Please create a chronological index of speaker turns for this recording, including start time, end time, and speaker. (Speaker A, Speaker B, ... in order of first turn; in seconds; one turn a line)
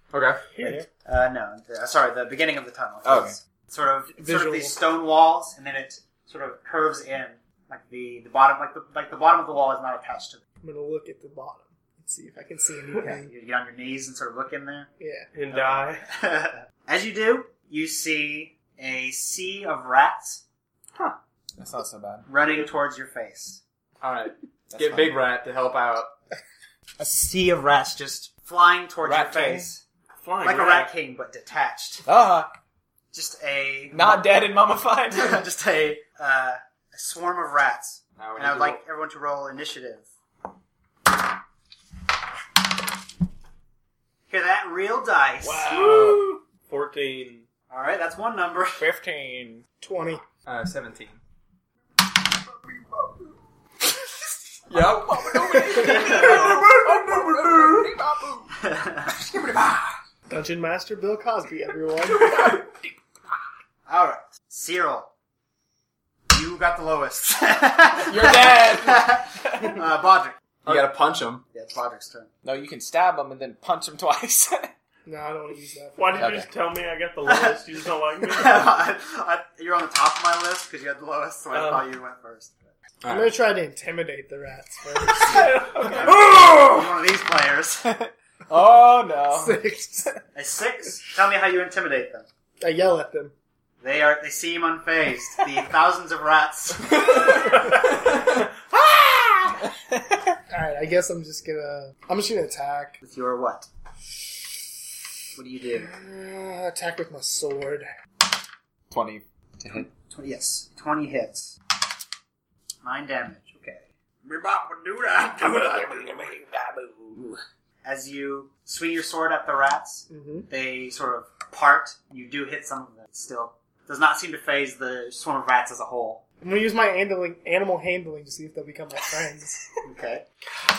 Speaker A: 0.1-0.6
Speaker B: 0.6-10.4
Speaker C: 3.0-3.3
Speaker D: 4.2-4.7
Speaker D: 10.6-13.3
Speaker B: 12.9-14.9
Speaker D: 15.0-15.3
Speaker E: 15.3-16.0
Speaker B: 15.5-20.4
Speaker C: 21.6-22.2
Speaker B: 22.3-23.6
Speaker A: 24.0-26.1
Speaker C: 24.7-25.1
Speaker B: 27.0-29.8
Speaker C: 29.0-29.7
Speaker E: 30.2-30.9
Speaker B: 30.4-32.0
Speaker C: 32.0-32.5
Speaker B: 33.1-34.4
Speaker C: 33.9-35.4
Speaker B: 35.1-40.1
Speaker A: 38.2-38.8
Speaker B: 44.3-46.1
Speaker C: 45.4-46.4
Speaker E: 45.9-47.5
Speaker B: 47.7-48.8
Speaker C: 48.8-49.6
Speaker D: 49.8-50.2
Speaker A: 50.5-51.2
Speaker A: 54.7-58.0
Speaker C: 55.1-58.5
Speaker B: 58.7-59.1
Speaker A: 59.2-59.9
Speaker D: 60.3-62.3
Speaker A: 62.3-62.6
Speaker B: 63.9-65.1
Speaker B: 66.3-70.9
Speaker C: 68.0-69.8
Speaker A: 70.6-71.4
Speaker B: 71.5-72.3
Speaker C: 72.4-74.7
Speaker D: 75.0-76.3
Speaker E: 76.0-78.7
Speaker C: 76.2-76.5
Speaker B: 77.2-77.6
Speaker B: 78.2-82.7
Speaker E: 81.5-81.8
Speaker A: 83.0-83.4
Speaker D: 83.1-85.6
Speaker C: 85.3-87.0
Speaker B: 85.8-88.0
Speaker C: 87.9-90.2
Speaker D: 89.3-90.1
Speaker B: 90.3-92.3
Speaker D: 92.6-93.3
Speaker B: 93.8-97.2
Speaker C: 99.6-100.3
Speaker D: 100.5-103.0
Speaker B: 103.0-103.7
Speaker B: 105.3-105.9
Speaker D: 105.8-107.9
Speaker C: 108.9-109.2
Speaker A: 109.6-109.9
Speaker B: 110.1-111.6
Speaker B: 112.8-116.0
Speaker C: 115.4-117.3
Speaker B: 117.8-126.2
Speaker D: 120.1-120.5
Speaker D: 126.4-129.7
Speaker B: 129.8-130.2